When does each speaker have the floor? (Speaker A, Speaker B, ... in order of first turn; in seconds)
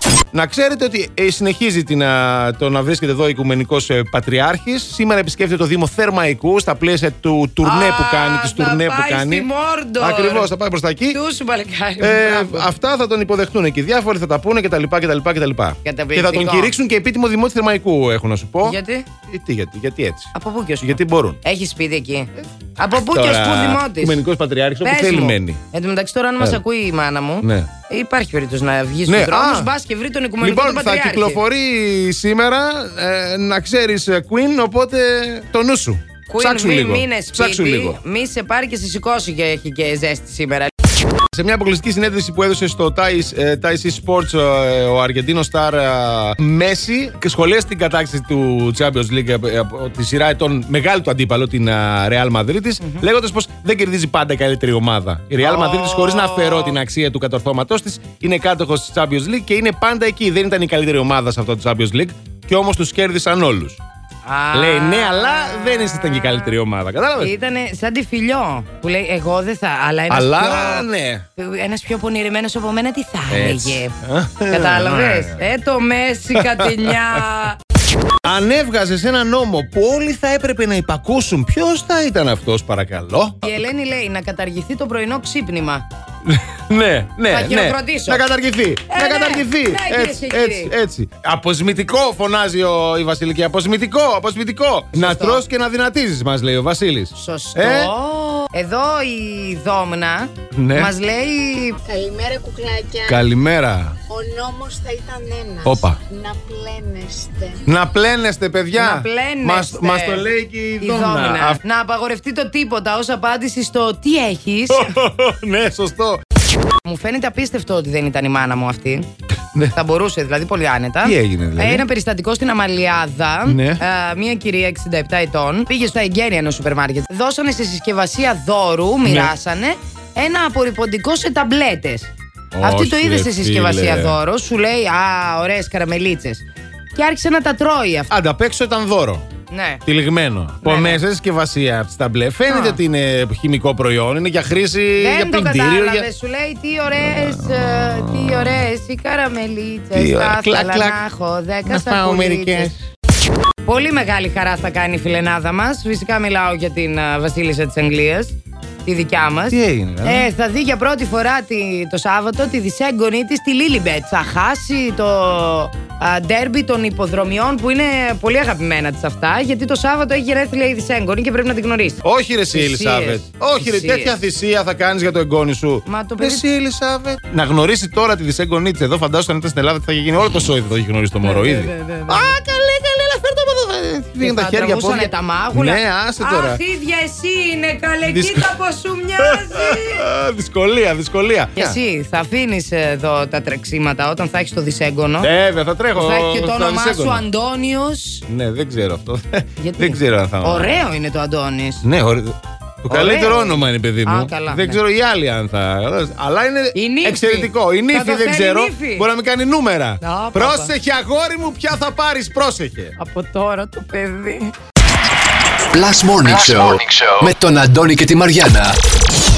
Speaker A: 0.3-9.5, 10.0-11.2, 12.0-21.4, 23.0-25.6, 27.4-27.7, 29.1-29.7, 30.4-38.0, 41.3-63.8, 64.5-67.3, 70.1-71.2, 73.3-75.5, 76.3-77.2, 78.2-83.5, 86.2-97.9, 100.5-100.9, 103.0-104.0, 105.7-106.0, 107.7-111.6, 114.7-116.2, 121.0-121.8, 123.5-123.8, 129.1-129.3, 132.6-134.2, 138.1-139.2, 139.8-146.1, 147.0-148.6, 149.9-151.0, 151.7-152.8, 159.5-160.3, 172.0-186.6, 188.1-188.5, 189.2-191.8, 195.2-197.2, 198.3-200.8, 201.8-212.9
Speaker B: 7.6-10.5, 11.1-12.7, 15.8-16.7, 18.6-19.1, 20.3-24.2, 24.8-31.4, 36.3-40.7, 55.4-56.8, 64.2-66.4, 67.2-74.0, 74.5-77.6, 83.4-85.9, 87.3-88.2, 88.9-90.7, 94.9-95.4, 97.2-101.8, 108.7-110.3, 110.8-115.0, 116.8-119.1, 119.7-136.4, 136.9-138.1, 139.5-139.8, 140.6-141.0, 142.5-142.8, 145.0-152.7, 153.6-172.0, 172.5-174.2, 175.9-176.4, 181.2-182.3, 184.2-190.1, 191.6-195.3, 195.9-198.2, 199.6-201.8, 202.9-204.8, 206.8-209.1, 210.0-210.7, 213.0-214.5
Speaker C: 101.8-103.2, 104.1-107.6
Speaker D: 215.7-218.8